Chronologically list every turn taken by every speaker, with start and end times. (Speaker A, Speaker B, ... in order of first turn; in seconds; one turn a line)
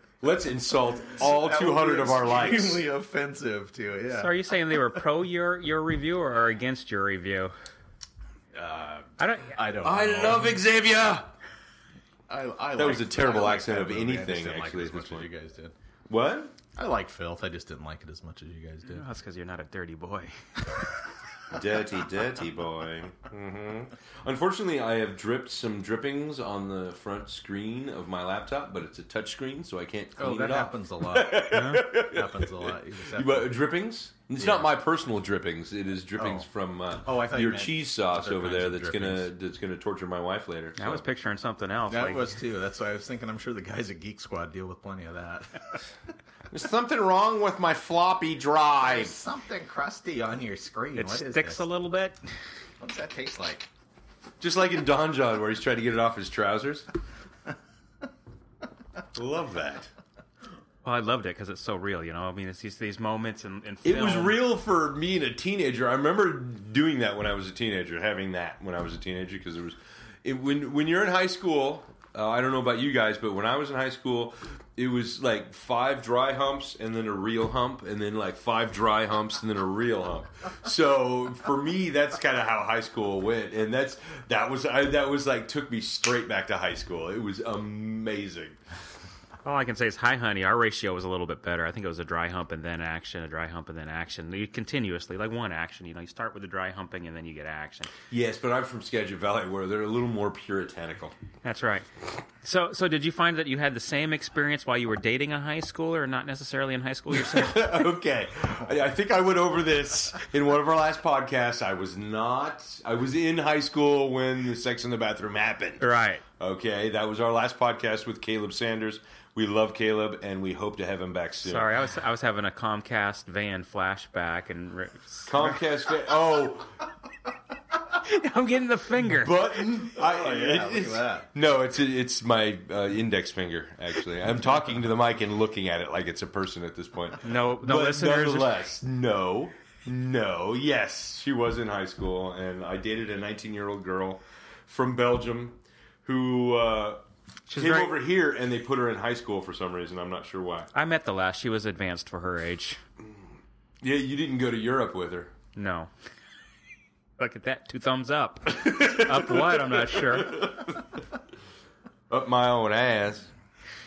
Speaker A: 0.2-2.9
Speaker B: 1.1-4.8
Speaker C: 4.1-7.5
Speaker B: 8.5-10.6
Speaker C: 9.2-9.6
Speaker A: 9.8-11.3
Speaker B: 12.3-15.7
Speaker A: 12.8-15.3
Speaker A: 16.1-16.5
Speaker B: 16.8-19.0
Speaker C: 18.9-20.4
Speaker A: 21.5-41.0
Speaker B: 30.2-33.6
Speaker C: 31.5-31.9
Speaker B: 34.4-34.7
Speaker B: 36.1-36.5
Speaker B: 37.0-39.3
Speaker C: 40.8-42.3
Speaker B: 41.9-45.6
Speaker A: 46.5-49.1
Speaker B: 48.8-51.6
Speaker C: 51.0-52.2
Speaker B: 52.8-53.7
Speaker A: 54.4-56.9
Speaker A: 59.1-59.9
Speaker C: 60.8-64.4
Speaker A: 63.9-88.6
Speaker C: 89.4-97.9
Speaker A: 98.1-101.2
Speaker C: 101.4-101.9
Speaker C: 102.4-107.7
Speaker A: 107.1-115.9
Speaker C: 115.8-116.2
Speaker A: 116.4-121.7
Speaker C: 121.4-125.6
Speaker A: 125.2-126.8
Speaker C: 127.9-129.3
Speaker A: 129.1-150.7
Speaker B: 130.0-131.3
Speaker C: 137.2-138.6
Speaker C: 147.5-147.9
Speaker C: 150.7-152.8
Speaker A: 153.8-155.3
Speaker C: 155.6-155.9
Speaker C: 157.2-160.5
Speaker A: 158.5-160.8
Speaker A: 162.1-163.3